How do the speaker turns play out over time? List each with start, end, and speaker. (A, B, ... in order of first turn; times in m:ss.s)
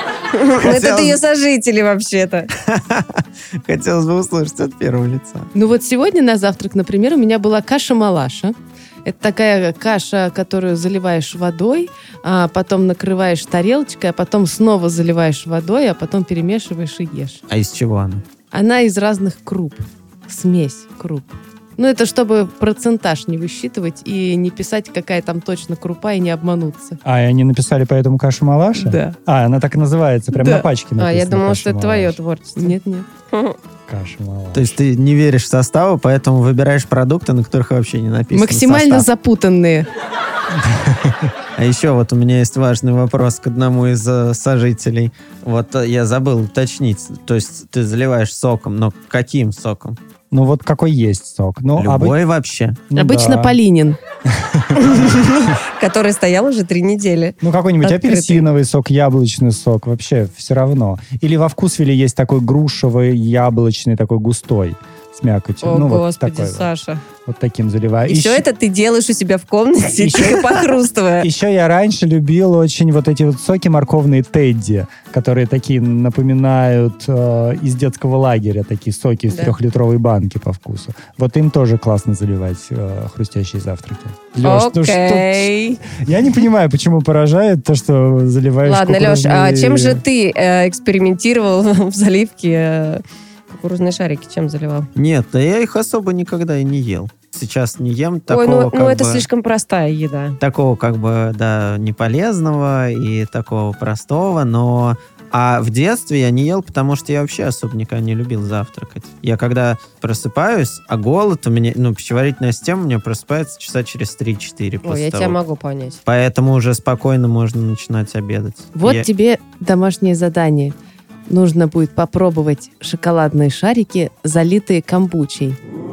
0:00.3-0:02.5 A
0:00.6-0:01.2 B
0:02.6-0:05.5 B
0:05.5-0:17.4 C
0:17.5-0:18.2 B
0:18.5-0:27.0 C
0:27.0-0:32.2 D
0:28.8-0:29.2 C
0:30.3-0:30.7 C
0:31.0-0:32.8 A
0:32.6-0:33.1 C
0:33.3-0:33.6 A
0:33.9-0:34.8 D
0:34.5-0:39.1 B
0:38.3-0:39.9 C
0:40.7-0:41.3 D
0:41.6-0:50.0 B
0:50.3-0:52.2 D
0:51.7-0:52.8 B
0:52.9-0:53.6 D
0:52.9-0:54.0 C
0:54.3-0:54.8 D
0:54.8-0:58.4 A
0:57.4-1:06.7 D
1:05.6-1:07.0 A
1:07.2-1:08.4 D
1:08.1-1:11.3 A
1:10.0-1:30.0 D
1:24.4-1:25.8 A
1:28.6-1:34.9 A
1:34.9-1:39.3 B
1:38.3-1:40.4 A
1:40.4-1:55.4 B
1:54.8-1:56.0 A
1:56.0-1:59.1 B
1:58.8-2:00.7 C
2:01.3-2:05.6 C